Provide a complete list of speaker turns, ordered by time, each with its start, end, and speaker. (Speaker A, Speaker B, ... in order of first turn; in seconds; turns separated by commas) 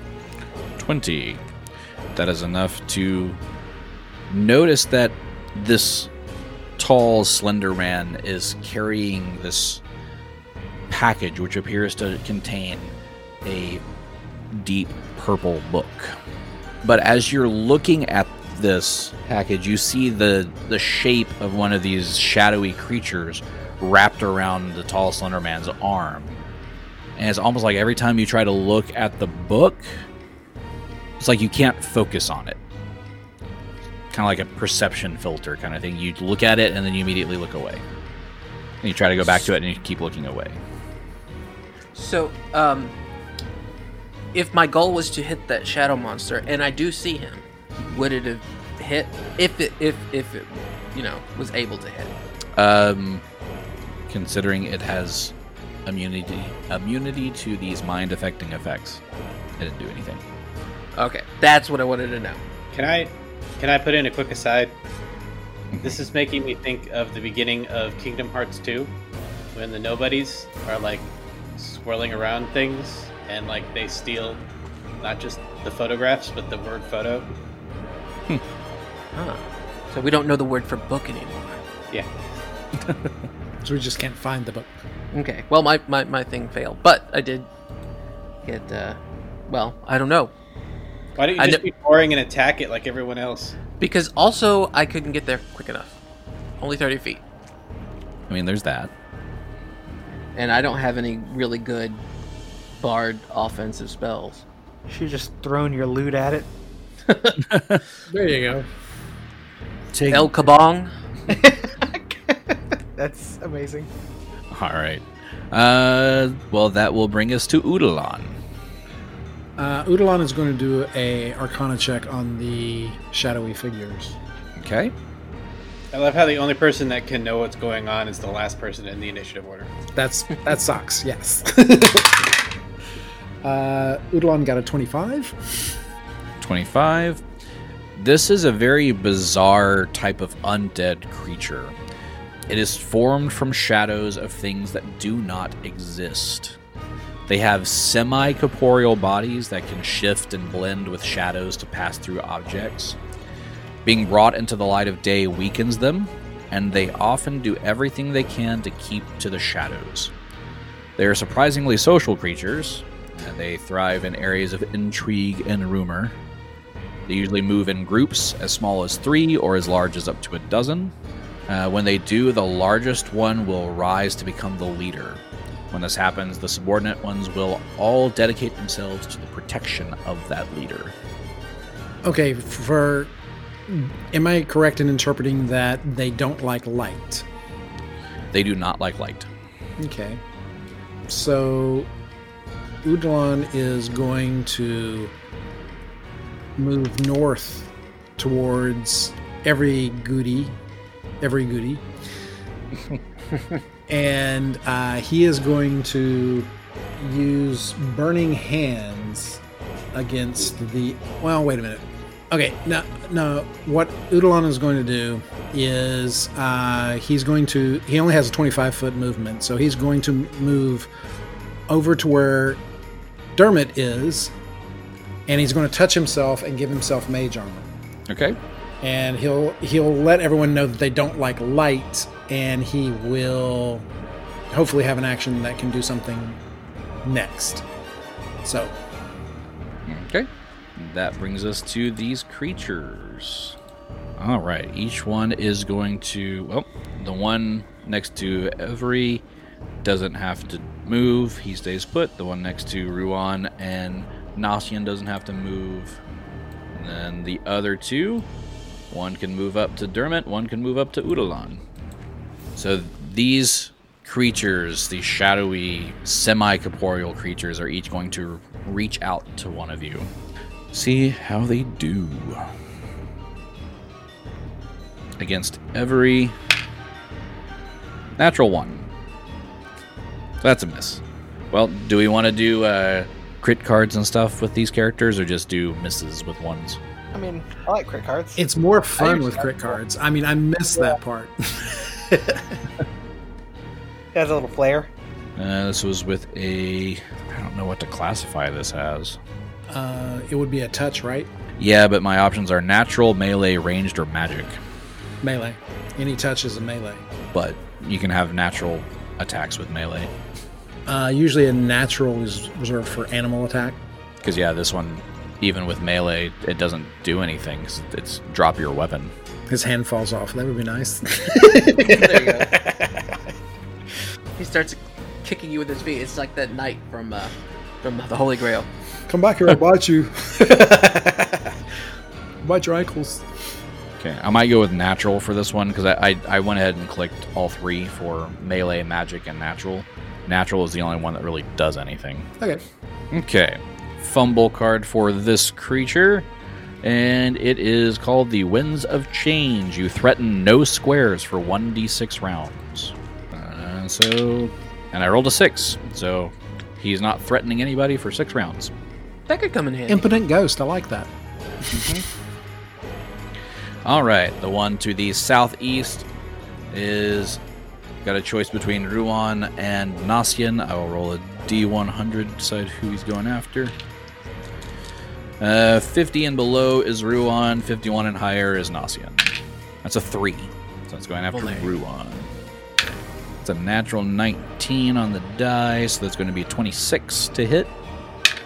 Speaker A: 0.8-1.4, Speaker A: 2.1-3.4, Speaker A: 4.3-6.1, Speaker A: 6.8-9.8, Speaker A: 10.9-12.9, Speaker A: 13.4-13.8, Speaker A: 14.5-16.2, Speaker A: 16.8-26.4, Speaker A: 27.1-30.0, Speaker A: 31.2-32.6, Speaker A: 34.1-37.8, Speaker A: 38.8-40.6, Speaker B: 41.9-42.9, Speaker B: 44.3-52.1, Speaker A: 52.5-53.2, Speaker A: 54.1-55.3, Speaker A: 55.9-59.0, Speaker A: 59.6-60.2, Speaker B: 60.9-62.4, Speaker C: 62.7-64.8, Speaker A: 65.7-66.0, Speaker C: 65.8-68.9, Speaker C: 69.5-74.4, Speaker C: 75.0-77.3, Speaker B: 79.1-81.6, Speaker D: 83.6-84.8, Speaker B: 85.1-87.5, Speaker B: 88.4-90.3, Speaker C: 91.2-93.5, Speaker B: 91.4-91.6, Speaker B: 93.8-96.0, Speaker B: 96.6-97.2, Speaker A: 98.3-98.9, Speaker B: 100.3-102.0, Speaker B: 102.8-104.4, Speaker E: 104.9-106.5, Speaker B: 107.1-107.4, Speaker A: 107.5-107.8, Speaker D: 108.1-108.7, Speaker A: 109.9-110.3, Speaker B: 110.1-110.9, Speaker E: 111.3-113.9, Speaker A: 114.5-118.4, Speaker D: 119.6-124.2, Speaker A: 124.6-124.9, Speaker C: 125.9-129.7, Speaker D: 129.9-132.3, Speaker D: 133.4-135.8, Speaker A: 136.4-137.2, Speaker A: 137.9-141.8, Speaker A: 142.5-146.6, Speaker A: 147.3-153.0, Speaker A: 153.8-160.1, Speaker A: 161.0-166.2, Speaker A: 167.1-170.9, Speaker A: 171.5-180.9, Speaker D: 182.0-183.1, Speaker D: 183.7-187.2, Speaker A: 188.3-189.3, Speaker D: 189.8-190.2, Speaker D: 191.1-191.9, Speaker D: 192.8-195.1, Speaker D: 196.6-200.6, Speaker D: 201.2-201.8, Speaker D: 203.9-209.4, Speaker D: 209.9-220.9, Speaker D: 221.7-222.6, Speaker D: 223.3-224.3, Speaker D: 225.3-227.7, Speaker A: 228.1-228.4, Speaker D: 228.8-233.9, Speaker D: 234.5-236.4, Speaker D: 237.0-237.7, Speaker D: 238.4-238.8, Speaker A: 239.8-243.6, Speaker A: 244.2-249.2, Speaker A: 249.8-256.0, Speaker A: 256.7-258.3, Speaker A: 258.9-261.6, Speaker A: 262.6-270.1, Speaker A: 270.7-272.5, Speaker A: 275.2-276.4, Speaker A: 278.2-278.9, Speaker A: 280.4-286.8, Speaker E: 287.1-288.4, Speaker D: 288.4-292.5, Speaker E: 289.0-289.6, Speaker E: 294.1-294.9, Speaker A: 295.4-299.2, Speaker D: 299.7-301.3, Speaker A: 301.6-304.6, Speaker D: 305.2-307.1, Speaker A: 307.3-310.1, Speaker D: 310.9-313.8, Speaker A: 314.2-319.1, Speaker D: 319.5-323.0, Speaker B: 321.8-322.5, Speaker B: 324.4-328.7, Speaker D: 329.1-331.6, Speaker D: 332.4-333.5, Speaker A: 334.0-342.3, Speaker A: 343.1-346.3, Speaker A: 346.8-358.7, Speaker B: 359.3-360.1, Speaker D: 359.9-361.1, Speaker A: 361.7-362.0, Speaker A: 363.8-366.1, Speaker A: 366.7-367.4, Speaker A: 368.0-373.7, Speaker A: 375.4-382.3, Speaker B: 381.3-381.7, Speaker A: 383.4-387.7